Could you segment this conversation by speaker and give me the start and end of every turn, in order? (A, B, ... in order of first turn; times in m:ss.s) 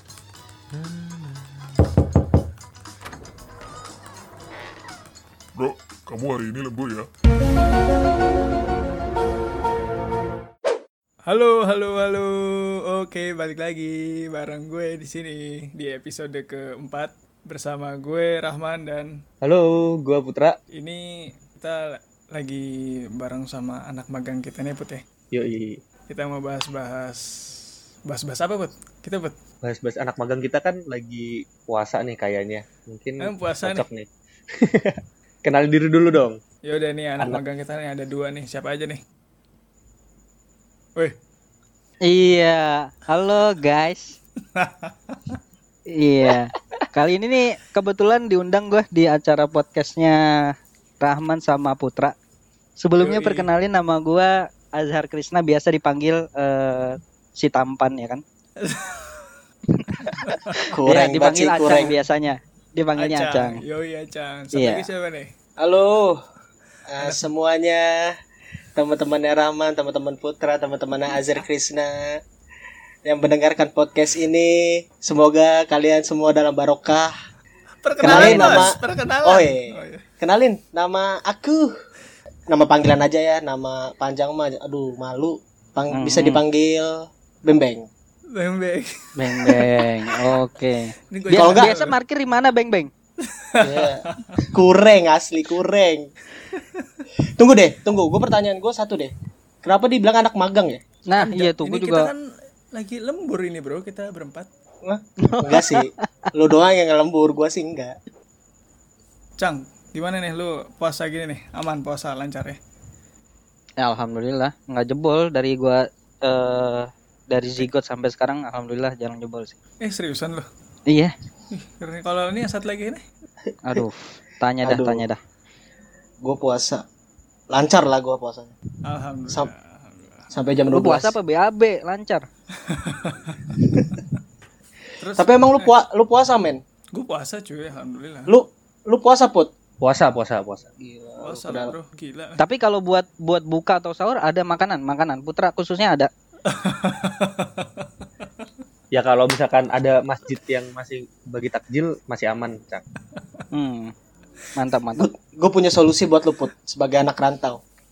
0:00.7-0:01.4 A
0:05.6-0:07.1 A
0:11.3-0:19.2 B
0:19.4-0:20.6 C
0:20.8-0:25.0 B
0:25.3-0:25.8 C
0:26.1-0:27.2 B
0:28.1-0:29.4 B
0:29.6-0:36.4 C
0:33.2-0:33.9 B
0:36.6-0:39.0 B
0:42.0-0:44.2 D
0:44.6-0:45.4 B
0:45.9-0:52.2 D
0:52.8-0:58.2 D
0:53.0-0:53.5 B
0:58.6-0:59.4 B
0:59.8-1:00.4 D
1:00.0-1:00.6 B
1:00.7-1:02.0 E
1:00.8-1:03.6 D
1:03.0-1:05.3 B
1:04.5-1:04.8 D
1:05.6-1:06.2 E
1:06.9-1:08.2 E
1:07.0-1:07.2 B
1:08.8-1:12.2 E
1:13.1-1:17.1 E
1:17.8-1:20.0 B
1:18.0-1:21.7 E
1:18.0-1:18.7 D
1:22.5-1:27.9 E
1:25.9-1:26.4 D
1:28.3-1:30.3 B
1:29.2-1:32.9 D
1:31.1-1:32.0 B
1:31.3-1:31.7 E
1:33.3-1:34.5 B
1:33.6-1:36.1 E
1:36.5-1:36.9 B
1:37.4-1:39.1 E
1:39.6-1:40.8 E
1:41.1-1:42.1 D
1:41.2-1:42.2 B
1:42.7-1:44.5 B
1:44.8-1:48.0 E
1:45.2-1:46.1 D
1:49.4-1:52.6 B
1:53.8-1:59.6 D
1:59.8-2:00.5 B
2:01.6-2:03.0 B
2:03.6-2:05.2 D
2:04.6-2:05.0 E
2:06.2-2:06.8 E
2:07.5-2:08.5 E
2:08.8-2:10.3 B
2:10.3-2:11.2 E
2:10.7-2:12.2 D
2:12.6-2:13.6 B
2:15.0-2:15.7 B
2:15.2-2:16.6 E
2:16.9-2:18.3 B
2:18.3-2:19.5 E
2:19.8-2:20.7 C
2:20.8-2:21.7 E
2:21.2-2:22.4 B
2:22.4-2:26.1 D
2:26.5-2:28.5 B
2:28.9-2:32.8 C
2:33.5-2:33.9 D
2:34.6-2:35.1 D
2:35.0-2:37.6 E